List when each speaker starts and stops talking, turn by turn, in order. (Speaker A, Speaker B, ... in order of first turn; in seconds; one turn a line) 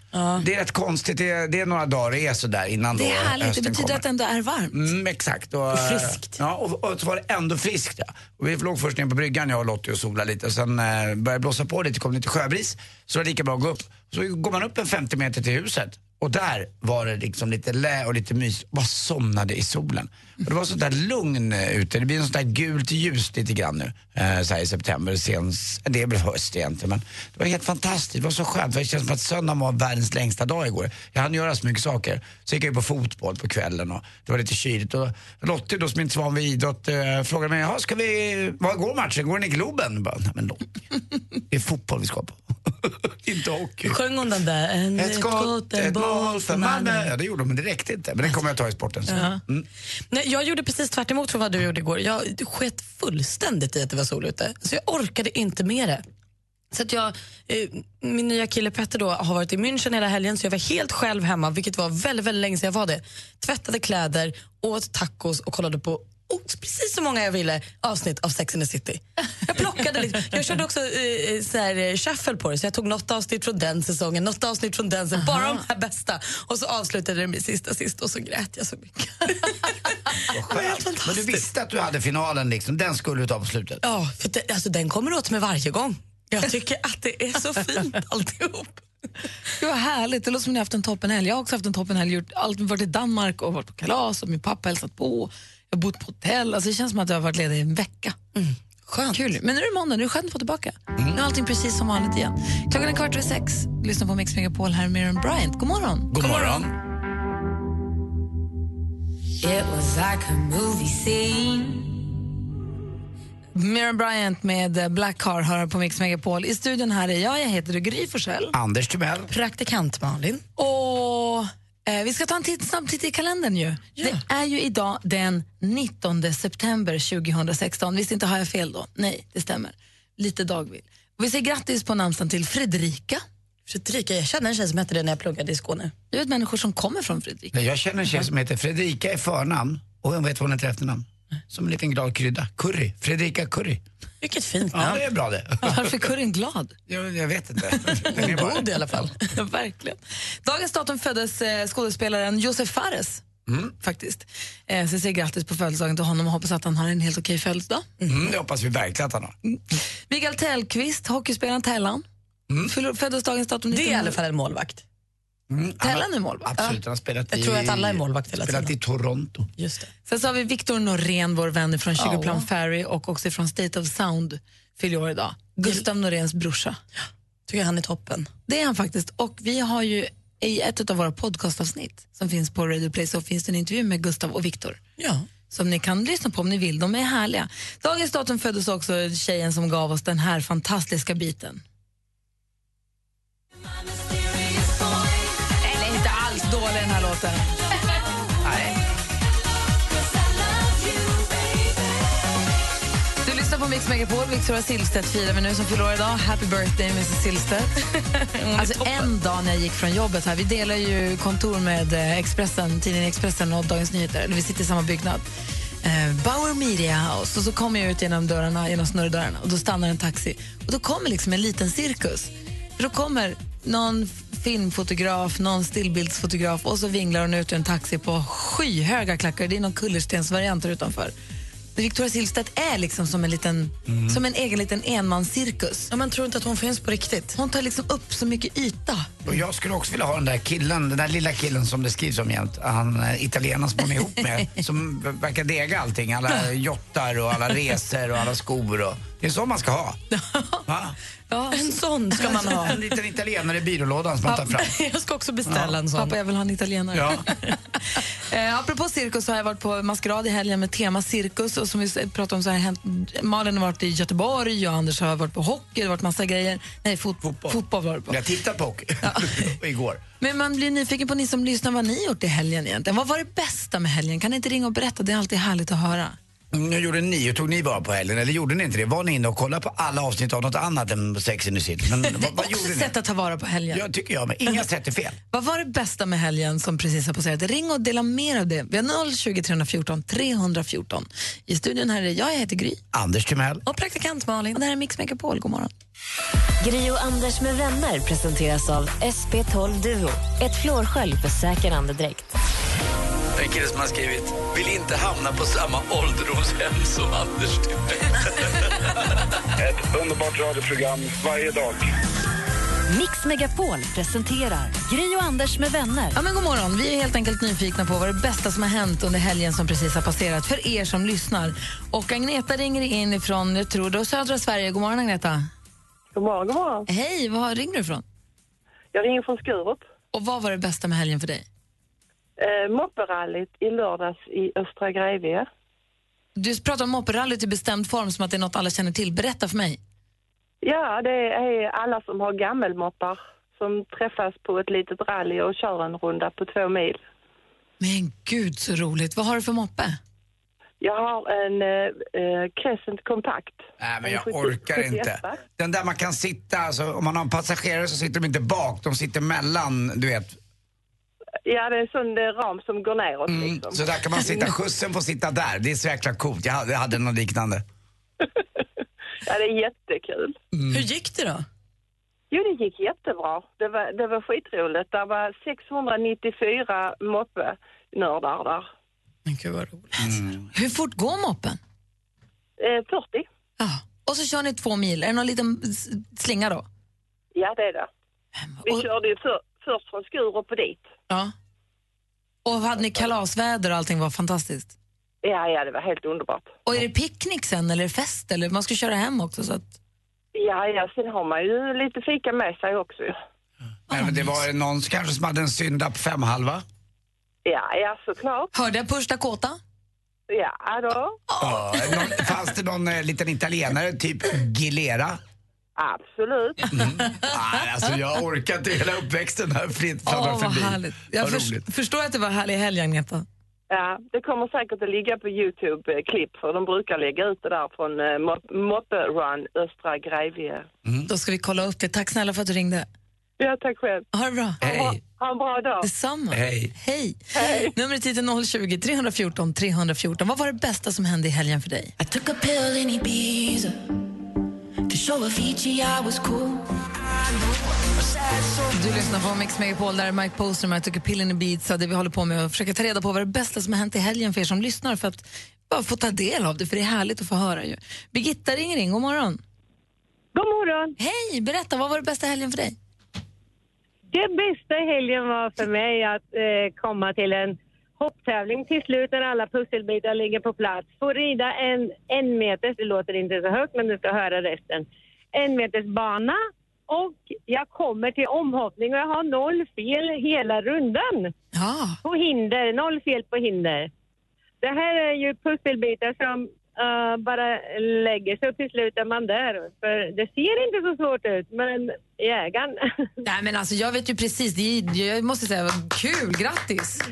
Speaker A: 0.1-0.4
Speaker B: 0.4-4.0
Speaker C: 2.9-4.8
Speaker B: 4.7-40.6
Speaker A: 5.7-6.4
Speaker B: 41.5-44.0
Speaker A: 43.8-47.1
Speaker B: 44.9-49.6
Speaker A: 49.1-49.4
Speaker A: 50.1-56.0
Speaker A: 56.7-79.7
Speaker C: 75.3-75.6
Speaker A: 80.3-81.4
Speaker B: 80.3-83.8
Speaker A: 83.8-88.8
Speaker C: 89.6-98.2
Speaker A: 98.3-99.2
Speaker C: 99.1-106.6
Speaker B: 106.1-106.7
Speaker C: 113.5-118.5
Speaker B: 118.5-119.3
Speaker A: 119.3-120.4
Speaker C: 120.6-133.2
Speaker A: 124.0-124.2
Speaker A: 133.7-135.9
Speaker C: 136.1-137.6
Speaker B: 137.5-143.8
Speaker A: 144.2-145.0
Speaker B: 144.7-145.9
Speaker C: 145.6-146.7
Speaker B: 146.9-148.7
Speaker A: 148.1-149.2
Speaker C: 149.3-153.2
Speaker B: 153.5-153.7
Speaker C: 153.8-157.9
Speaker A: 158.0-158.3
Speaker B: 158.1-159.3
Speaker C: 159.4-162.0
Speaker C: 162.7-164.2
Speaker A: 163.7-164.8
Speaker B: 165.5-169.5
Speaker C: 165.8-166.8
Speaker A: 167.3-168.7
Speaker A: 169.6-169.9
Speaker C: 170.1-176.8
Speaker A: 171.9-172.4
Speaker A: 177.5-178.3
Speaker C: 178.5-184.8
Speaker A: 185.0-185.2
Speaker C: 185.5-191.6
Speaker C: 195.6-197.5
Speaker B: 198.4-198.8
Speaker C: 203.2-207.7
Speaker A: 208.4-209.0
Speaker C: 208.5-215.2
Speaker C: 215.8-231.1
Speaker C: 231.8-235.9
Speaker B: 233.8-234.2
Speaker A: 235.9-237.3
Speaker C: 237.3-239.1
Speaker B: 239.2-250.0
Speaker C: 250.3-250.6
Speaker B: 250.7-250.9
Speaker C: 251.3-252.8
Speaker A: 251.5-252.8
Speaker B: 252.6-254.7
Speaker A: 254.3-256.2
Speaker B: 255.5-255.8
Speaker C: 255.9-257.3
Speaker B: 256.9-257.2
Speaker C: 258.2-268.2
Speaker B: 267.2-270.0
Speaker C: 270.2-276.2
Speaker B: 276.5-282.9
Speaker C: 282.2-283.8
Speaker B: 283.7-285.2
Speaker C: 285.3-292.8
Speaker B: 292.9-293.6
Speaker A: 293.6-294.6
Speaker C: 294.5-295.7
Speaker D: 296.6-302.3
Speaker E: 309.6-311.8
Speaker D: 312.9-316.1
Speaker C: 316.1-325.5
Speaker F: 326.1-326.9
Speaker C: 326.9-328.0
Speaker F: 328.9-329.9
Speaker C: 330.1-331.4
Speaker F: 332.4-335.4
Speaker C: 336.4-339.8
Speaker F: 340.6-347.0
Speaker C: 347.8-350.0
Speaker F: 350.8-355.4
Speaker B: 353.8-360.4
Speaker F: 361.4-364.5
Speaker B: 363.3-367.6
Speaker F: 369.2-370.3
Speaker B: 370.5-370.9
Speaker A: 370.7-371.4
Speaker F: 372.3-378.7
Speaker A: 379.2-380.1
Speaker B: 380.0-380.4
Speaker C: 380.5-381.6
Speaker F: 382.6-383.2
Speaker C: 383.6-386.7
Speaker F: 387.3-387.9
Speaker C: 388.4-388.8
Speaker F: 388.6-390.8
Speaker C: 392.4-394.7
Speaker F: 395.2-396.6
Speaker C: 396.6-399.7
Speaker F: 400.3-403.1
Speaker B: 403.9-406.6
Speaker C: 403.9-404.3
Speaker F: 407.4-408.5
Speaker C: 408.5-409.6
Speaker F: 410.3-411.2
Speaker B: 411.4-415.2
Speaker C: 411.4-412.1
Speaker F: 415.8-416.6
Speaker B: 416.7-421.6
Speaker C: 420.1-423.2
Speaker F: 423.7-430.6
Speaker C: 431.1-432.9
Speaker F: 433.4-434.1
Speaker C: 434.1-434.6
Speaker B: 434.6-435.0
Speaker F: 434.6-435.8
Speaker C: 435.8-437.2
Speaker B: 436.3-436.7
Speaker F: 437.3-437.7
Speaker C: 437.7-441.9
Speaker G: 442.0-443.7
Speaker G: 444.9-446.6
Speaker C: 448.7-459.4
Speaker H: 460.3-460.9
Speaker C: 461.0-462.8
Speaker H: 464.1-481.3
Speaker C: 481.5-482.0
Speaker H: 482.0-483.9
Speaker H: 484.6-492.8
Speaker C: 493.2-497.0